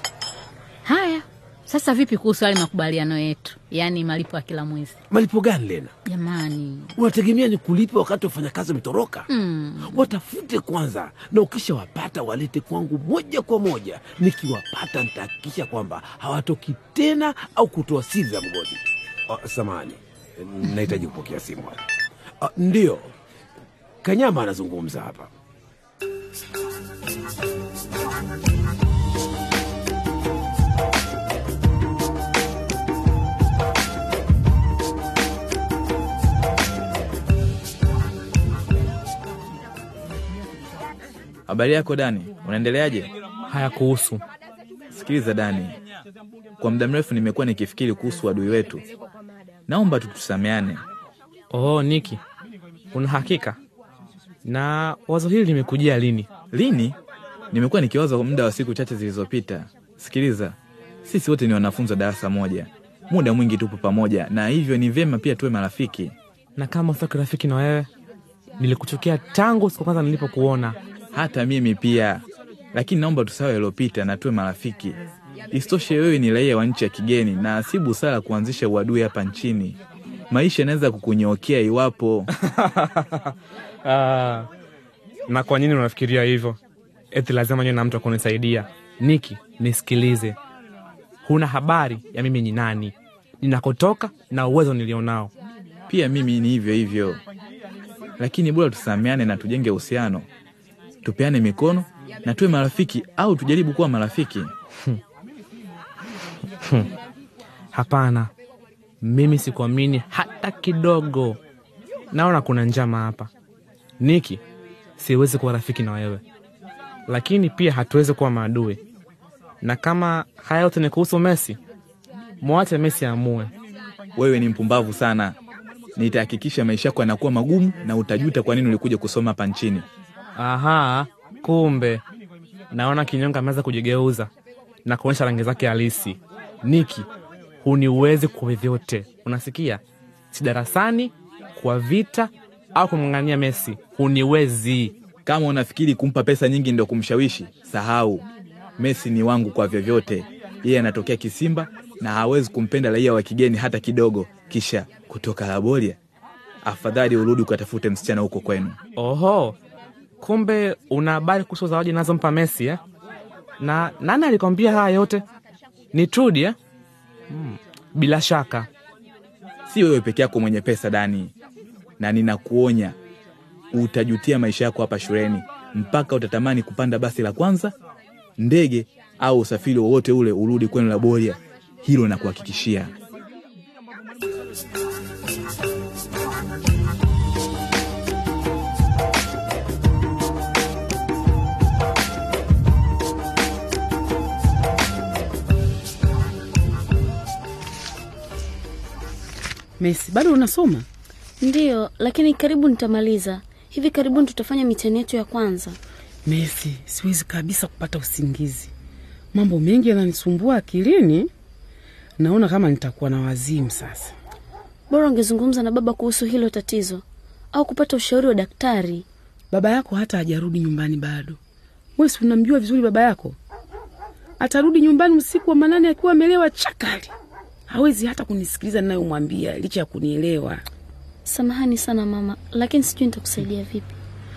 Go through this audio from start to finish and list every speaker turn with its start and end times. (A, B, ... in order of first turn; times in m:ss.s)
0:00.8-0:05.0 A
0:05.1-0:05.9 B
0:06.1-0:07.0 A
0:07.0-0:09.3 B
0:09.3-0:10.1 A
0:09.9-0:21.8 B
0:22.4-0:23.1 B
0:24.0-0:25.3 B
0:41.5-0:43.1 C
0:43.5-0:44.2 D
0:44.9-0:45.8 C
0:46.6-0:48.8 C
0:49.7-0:50.8 C
0:51.5-0:52.2 D
0:52.9-0:53.6 D
0:54.4-0:56.3 D
0:56.5-0:57.0 C
0:57.5-1:06.1 C
1:06.6-1:07.9 D
1:08.6-1:10.8 D
1:11.1-1:15.0 C
1:15.5-1:19.8 C
1:20.3-1:22.3 C
1:22.6-1:23.0 D
1:23.8-1:24.5 D
1:25.3-1:26.6 D
1:27.1-1:30.4 D
1:31.2-1:35.3 D
1:35.9-1:37.2 C
1:38.2-1:40.3 C
1:41.0-1:44.5 C
1:47.7-1:48.3 D
1:49.0-1:51.4 D
1:52.1-1:53.3 D
1:54.0-1:54.4 D
1:55.0-1:56.2 D
1:57.1-1:58.8 D
1:59.6-2:01.6 D
2:02.4-2:03.5 D
2:04.2-2:05.3 C
2:06.0-2:09.8 C
2:10.4-2:12.0 D
2:12.7-2:14.3 D
2:14.8-2:17.1 D
2:17.6-2:19.8 D
2:20.3-2:24.9 D
2:25.2-2:28.2 C
2:28.8-2:36.0 C
2:36.6-2:38.8 C
2:39.0-2:39.6 D
2:40.2-2:42.8 D
2:43.6-2:45.2 D
2:45.9-2:46.6 D
2:47.3-2:48.7 D
2:49.7-2:51.3 C
2:52.0-2:53.0 C
2:53.7-2:57.7 C
2:58.4-3:02.9 C
3:19.8-3:20.8 E
3:21.4-3:25.8 F
3:26.2-3:28.7 E
3:29.3-3:31.3 E
3:32.2-3:34.1 E
3:34.9-3:37.0 F
3:37.5-3:39.0 F
3:39.5-3:41.4 E
3:42.0-3:43.4 E
3:44.4-3:47.1 E
3:47.7-3:50.6 E
3:51.3-3:53.9 F